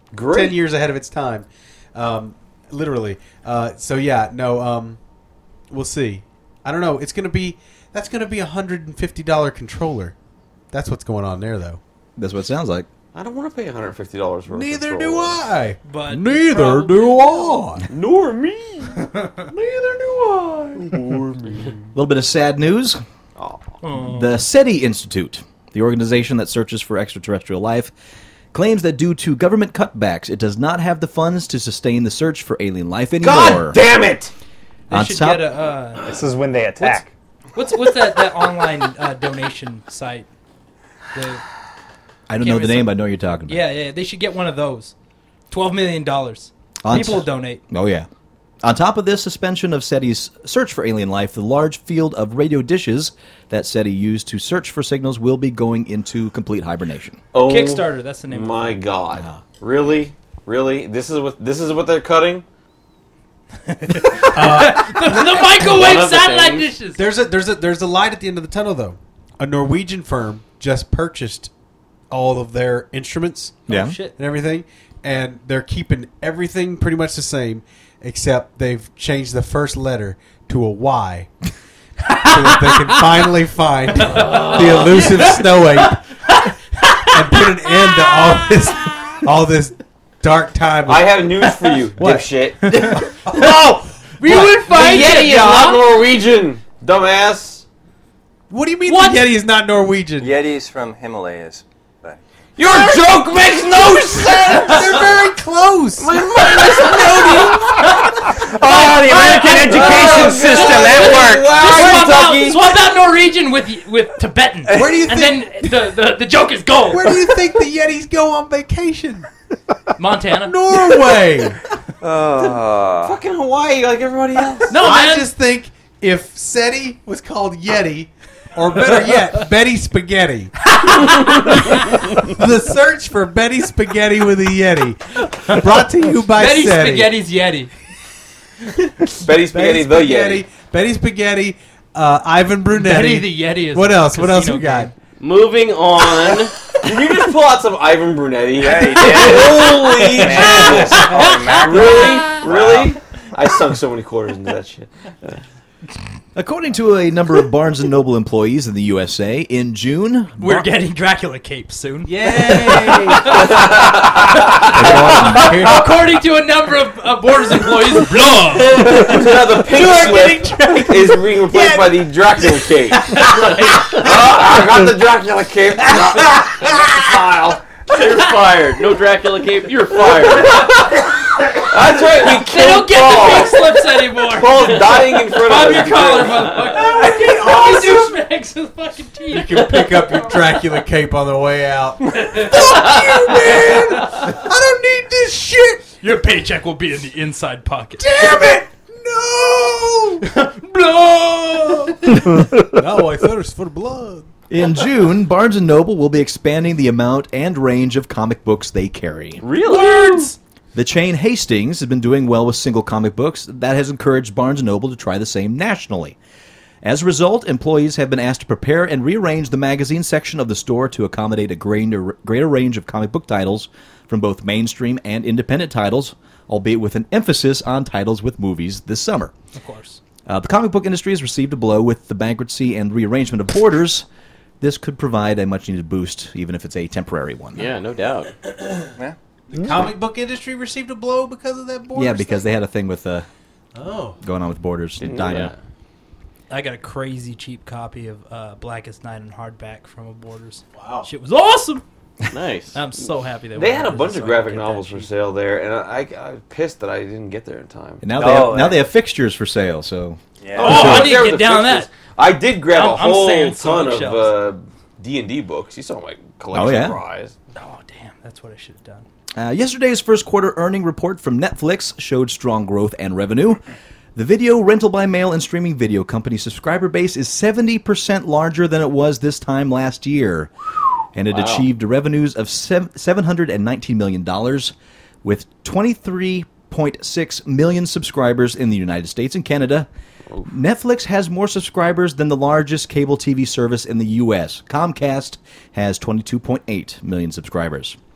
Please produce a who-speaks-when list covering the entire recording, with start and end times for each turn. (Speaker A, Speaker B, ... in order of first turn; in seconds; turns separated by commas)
Speaker A: 0.1-0.6, Speaker B: 0.2-5.0, Speaker B: 5.7-10.1, Speaker B: 10.7-11.8, Speaker C: 12.2-12.9, Speaker A: 13.1-15.4, Speaker B: 14.5-17.9, Speaker D: 15.8-17.6, Speaker A: 17.9-18.9, Speaker D: 19.0-19.5, Speaker B: 19.5-21.0, Speaker A: 20.7-21.6, Speaker C: 21.9-23.0, Speaker A: 23.4-23.7, Speaker D: 23.8-24.4, Speaker C: 24.0-27.9, Speaker C: 28.5-33.8, Speaker A: 33.2-34.3, Speaker C: 34.9-35.4, Speaker D: 34.9-36.1, Speaker E: 36.0-37.1, Speaker D: 37.5-40.3, Speaker D: 41.1-41.4, Speaker C: 42.3-43.6, Speaker D: 42.4-42.9, Speaker D: 43.5-44.9, Speaker D: 45.5-47.6, Speaker C: 46.8-48.1, Speaker C: 48.6-57.2, Speaker A: 57.3-62.4, Speaker D: 57.4-58.8, Speaker D: 63.7-67.1, Speaker B: 64.3-65.5, Speaker F: 65.5-66.7, Speaker B: 67.0-71.5, Speaker B: 72.1-81.3, Speaker C: 73.7-74.0, Speaker D: 73.7-74.2, Speaker D: 82.1-83.3, Speaker B: 82.2-86.0, Speaker D: 83.9-88.6, Speaker A: 84.3-84.9, Speaker B: 87.1-94.7, Speaker A: 90.9-93.1, Speaker D: 92.6-95.8, Speaker A: 94.3-97.6, Speaker B: 98.5-100.3, Speaker D: 98.8-99.3, Speaker G: 100.2-102.2, Speaker A: 102.6-105.0, Speaker D: 102.6-103.2, Speaker B: 103.9-107.0, Speaker A: 106.0-112.8, Speaker D: 108.0-117.5, Speaker E: 108.4-110.7, Speaker G: 109.1-111.5, Speaker B: 114.7-115.8, Speaker B: 116.8-119.3, Speaker D: 120.0-120.6, Speaker B: 120.4-121.6, Speaker G: 122.0-123.1, Speaker A: 122.4-124.8, Speaker D: 124.7-125.3, Speaker B: 124.7-137.1, Speaker D: 135.5-137.7, Speaker A: 139.2-140.4, Speaker B: 139.4-144.9, Speaker D: 142.7-144.9, Speaker F: 145.2-146.5, Speaker A: 146.1-155.4, Speaker G: 148.6-152.9, Speaker B: 149.3-151.1, Speaker D: 150.9-152.4, Speaker C: 156.3-160.7, Speaker D: 160.4-163.7, Speaker B: 162.1-163.6, Speaker A: 163.2-164.8, Speaker D: 164.5-169.1, Speaker B: 164.6-165.9, Speaker A: 168.8-177.6, Speaker B: 168.8-174.8, Speaker D: 173.1-173.9, Speaker B: 175.8-177.0, Speaker F: 177.9-180.7, Speaker A: 179.9-181.0, Speaker A: 181.6-186.7, Speaker D: 182.2-190.7, Speaker B: 186.7-188.2, Speaker B: 189.3-195.9, Speaker D: 192.1-194.4, Speaker D: 196.0-198.6, Speaker B: 198.0-200.2, Speaker D: 200.2-202.2, Speaker B: 201.8-204.3, Speaker C: 204.5-209.4, Speaker F: 209.4-210.2, Speaker A: 209.5-210.3, Speaker C: 210.7-216.2, Speaker C: 216.8-229.3, Speaker D: 229.5-230.0, Speaker C: 230.2-234.1, Speaker C: 234.6-237.6, Speaker F: 237.5-238.3, Speaker B: 239.5-242.4, Speaker C: 241.9-243.3, Speaker B: 243.7-244.2, Speaker C: 244.2-245.5, Speaker A: 245.0-245.5, Speaker F: 245.2-245.5, Speaker D: 246.5-251.8, Speaker B: 250.8-251.1, Speaker F: 252.3-252.8, Speaker D: 252.7-255.1, Speaker A: 253.5-258.0, Speaker C: 258.0-261.1, Speaker G: 258.2-258.8, Speaker G: 260.4-260.9, Speaker D: 260.6-261.9, Speaker A: 260.6-267.3, Speaker D: 262.7-264.3, Speaker C: 266.5-267.0, Speaker D: 267.5-269.1, Speaker C: 269.3-273.6, Speaker C: 274.1-280.5, Speaker C: 281.1-289.9, Speaker F: 281.3-281.6, Speaker C: 290.4-298.0